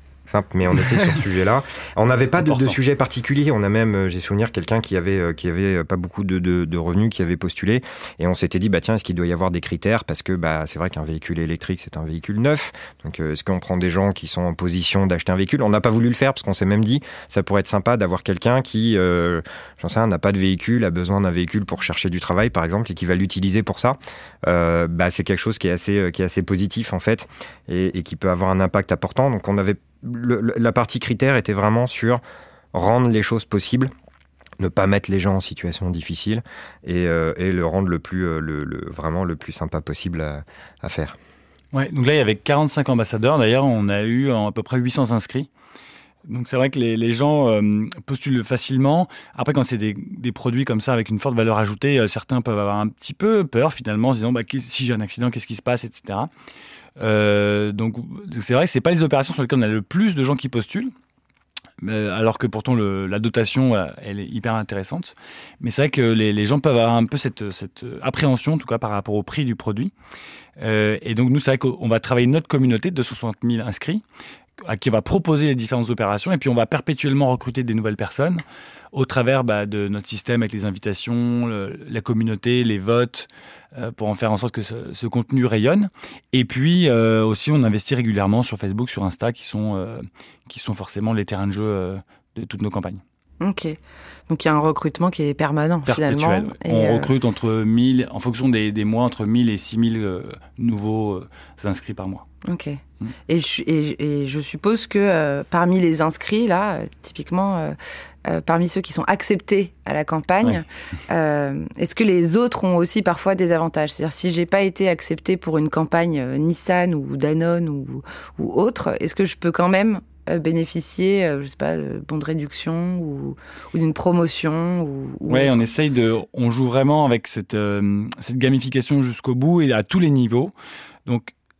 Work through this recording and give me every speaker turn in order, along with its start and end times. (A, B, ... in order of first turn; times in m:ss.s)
0:00.3-0:32.2 A
0:02.4-0:02.8 B
0:32.7-0:33.9 A
0:34.6-0:41.2 A
0:41.7-0:45.5 B
0:46.2-0:56.3 B
0:57.0-1:00.9 B
1:01.8-1:09.9 B
1:10.6-1:14.0 B
1:14.6-1:18.4 B
1:18.9-1:33.0 B
1:33.4-1:33.8 C
1:34.3-1:37.1 C
1:35.9-1:42.2 B
1:42.4-2:05.6 C
2:05.3-2:10.5 B
2:11.1-2:11.3 B